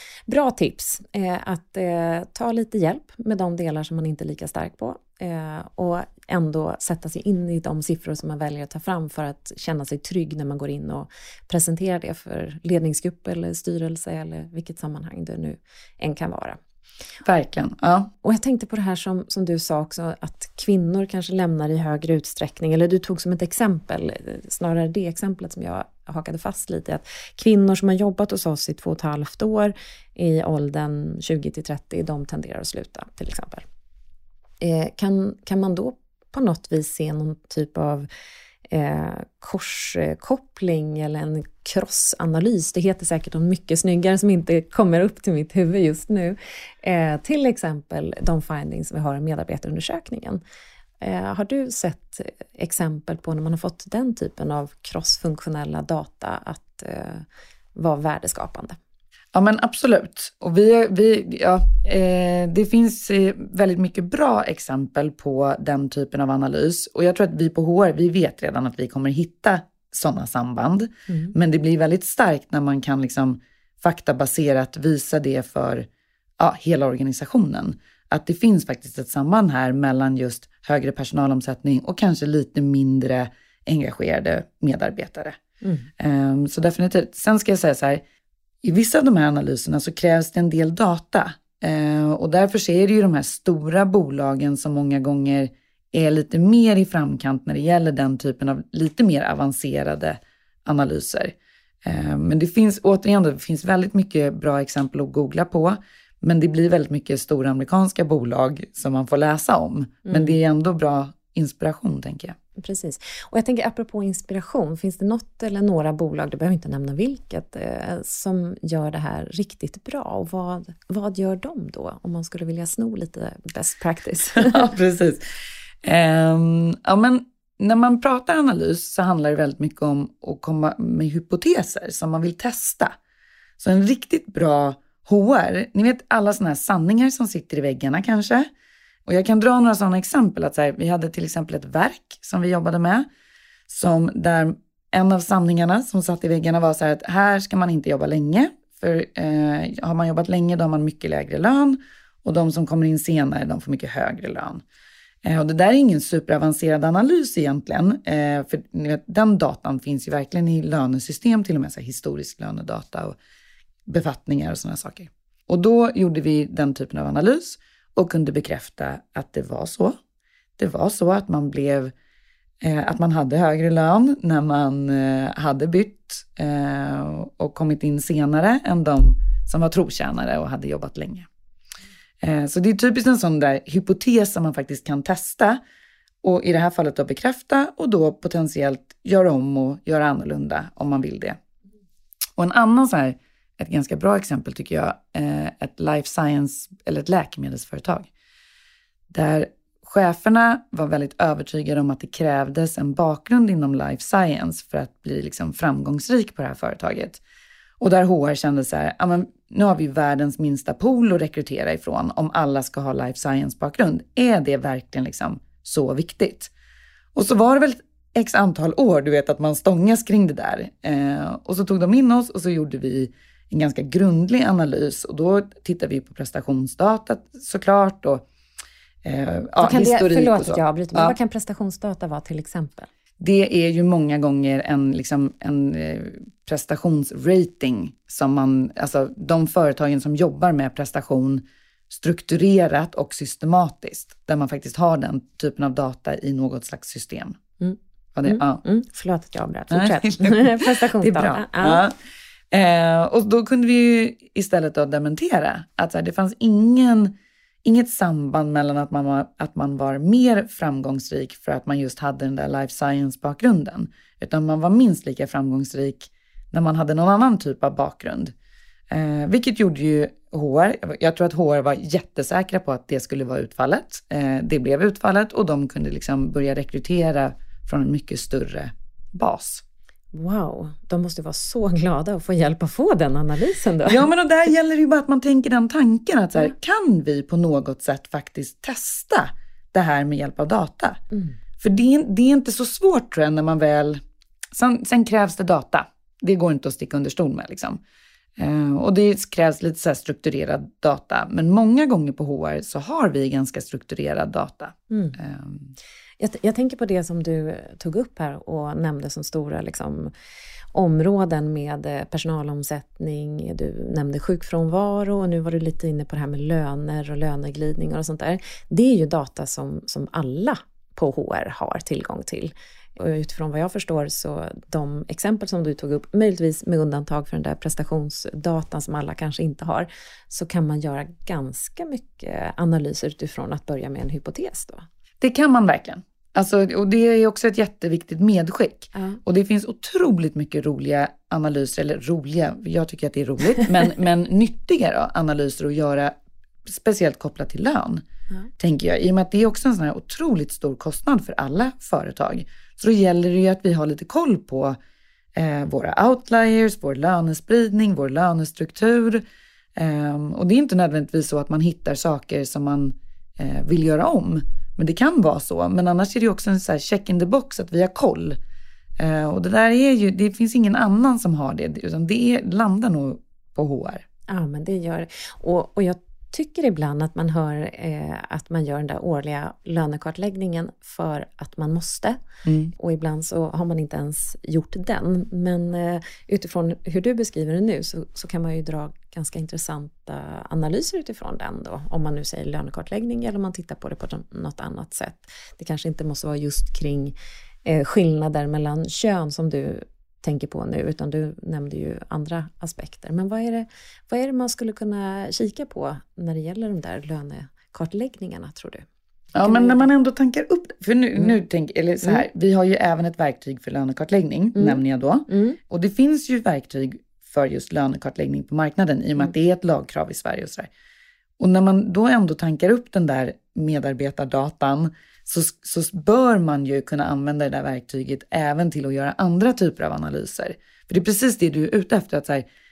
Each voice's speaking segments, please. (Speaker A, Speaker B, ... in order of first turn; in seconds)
Speaker A: 0.3-16.6, 18.2-33.6, 34.6-38.1, 38.7-50.4, 51.0-58.8, 71.1-71.3, 85.6-85.9, 110.1-110.4, 112.6-124.6, 229.6-232.9, 247.6-251.8, 280.1-284.1, 304.9-305.2, 306.2-310.1, 310.7-334.9, 338.9-339.2, 374.3-382.2, 382.7-408.9, 409.4-409.9, 414.6-415.6
Speaker B: 17.2-18.1, 59.3-75.9, 76.4-85.4, 86.0-88.0, 88.6-112.3, 124.3-125.2, 125.8-132.9, 133.6-138.5, 139.1-143.1, 143.7-154.6, 155.2-163.2, 163.8-169.9, 170.6-171.9, 172.6-181.3, 182.2-185.6, 186.2-191.4, 192.4-198.1, 199.1-207.2, 207.8-216.5, 217.1-228.2, 229.0-231.2, 233.2-247.4, 248.1-248.6, 249.7-251.9, 252.5-268.3, 268.9-279.6, 283.9-291.0, 291.6-294.0, 294.5-297.8, 298.4-305.7, 335.2-346.1, 346.6-348.0, 348.6-354.8, 355.3-359.2, 359.7-368.4, 369.0-374.0, 382.4-382.7, 409.3-420.7, 421.4-432.4